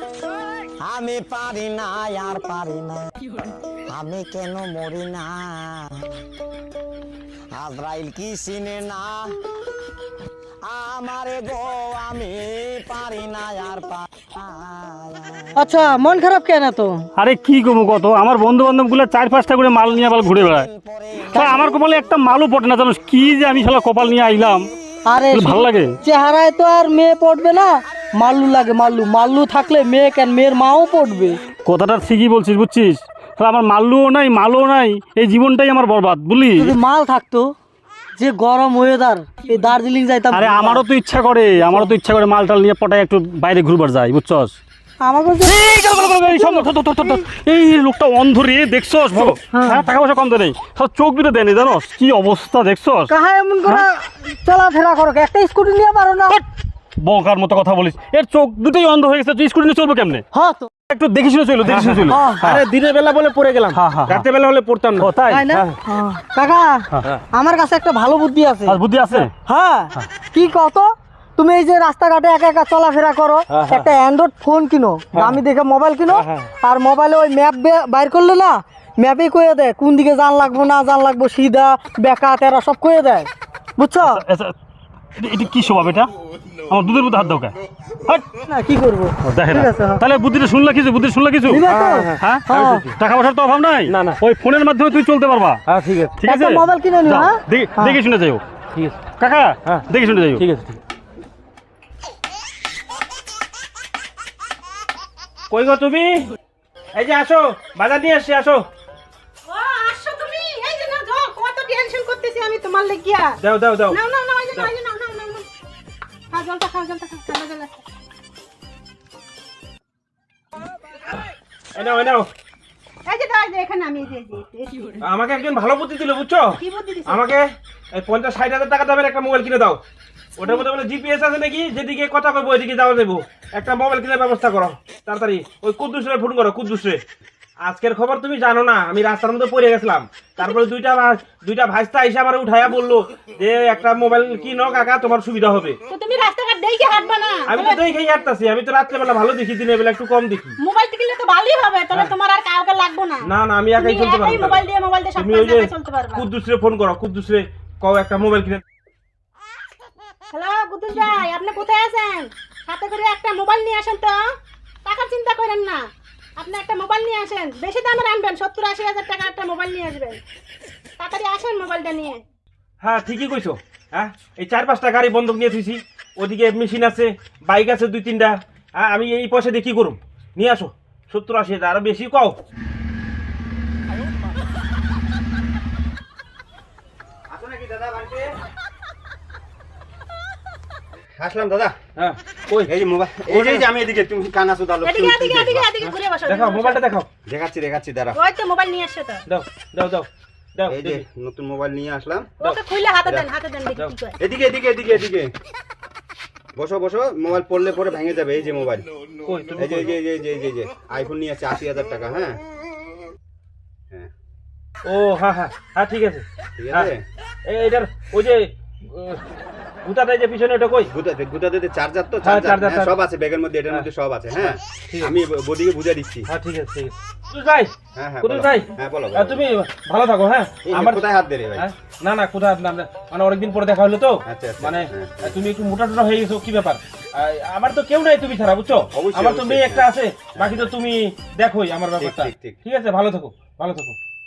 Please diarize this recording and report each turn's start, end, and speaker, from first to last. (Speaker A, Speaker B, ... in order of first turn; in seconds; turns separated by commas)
Speaker A: 0.8-3.1, Speaker A: 3.9-6.1, Speaker A: 7.5-9.3, Speaker A: 10.6-15.5, Speaker B: 15.6-17.0, Speaker C: 17.1-20.7, Speaker A: 20.3-21.7, Speaker C: 21.2-24.7, Speaker B: 21.3-21.8, Speaker B: 25.1-31.4, Speaker C: 25.3-25.9, Speaker C: 31.6-36.7, Speaker B: 36.6-37.5, Speaker B: 38.1-40.8, Speaker C: 40.3-44.5, Speaker B: 41.6-41.9, Speaker B: 45.0-47.2, Speaker C: 45.4-53.1, Speaker B: 49.3-49.9, Speaker B: 53.1-56.4, Speaker C: 57.0-60.2, Speaker B: 60.3-60.7, Speaker C: 60.9-62.6, Speaker D: 61.6-65.7, Speaker B: 62.1-62.5, Speaker C: 63.7-64.2, Speaker C: 65.0-65.4, Speaker B: 65.3-84.2, Speaker C: 68.7-69.3, Speaker D: 73.5-73.9, Speaker D: 75.1-75.4, Speaker D: 76.1-76.5, Speaker C: 84.0-84.5, Speaker C: 85.2-86.1, Speaker C: 86.7-87.5, Speaker B: 88.4-90.0, Speaker C: 89.2-95.6, Speaker B: 91.5-92.8, Speaker D: 91.7-93.0, Speaker D: 93.9-94.2, Speaker D: 95.7-96.2, Speaker C: 96.2-98.4, Speaker B: 96.2-98.0, Speaker D: 98.7-99.0, Speaker C: 99.2-100.4, Speaker D: 99.6-100.8, Speaker D: 105.5-106.2, Speaker D: 106.9-108.6, Speaker E: 109.5-113.3, Speaker D: 113.4-114.0, Speaker E: 113.9-115.5, Speaker E: 116.3-117.8, Speaker D: 121.7-122.3, Speaker E: 123.0-124.9, Speaker D: 125.0-129.8, Speaker E: 126.6-127.2, Speaker D: 130.4-137.0, Speaker D: 137.6-145.8, Speaker E: 145.9-147.8, Speaker D: 147.5-150.6, Speaker E: 150.6-156.2, Speaker D: 153.3-158.6, Speaker E: 160.3-164.2, Speaker D: 160.9-161.2, Speaker E: 164.8-165.8, Speaker E: 166.4-170.2, Speaker E: 171.0-172.2, Speaker D: 172.8-182.4, Speaker F: 187.3-188.3, Speaker F: 191.2-191.8, Speaker D: 191.9-192.7, Speaker F: 192.7-195.7, Speaker D: 193.3-193.7, Speaker E: 194.8-196.8, Speaker D: 195.8-197.1, Speaker F: 197.3-198.2, Speaker E: 198.2-199.2, Speaker D: 199.3-201.0, Speaker F: 200.7-202.3, Speaker D: 202.4-203.2, Speaker E: 202.4-204.2, Speaker F: 204.2-205.3, Speaker F: 206.6-208.8, Speaker D: 209.2-209.9, Speaker F: 209.6-212.4, Speaker D: 214.8-216.9, Speaker F: 216.6-217.0, Speaker D: 217.4-219.2, Speaker D: 219.8-220.9, Speaker F: 220.9-226.3, Speaker D: 222.2-222.9, Speaker D: 224.4-225.2, Speaker D: 226.3-231.0, Speaker F: 227.9-229.4, Speaker F: 230.7-231.7, Speaker D: 231.5-243.9, Speaker F: 234.2-235.3, Speaker F: 238.9-240.7, Speaker F: 242.0-242.6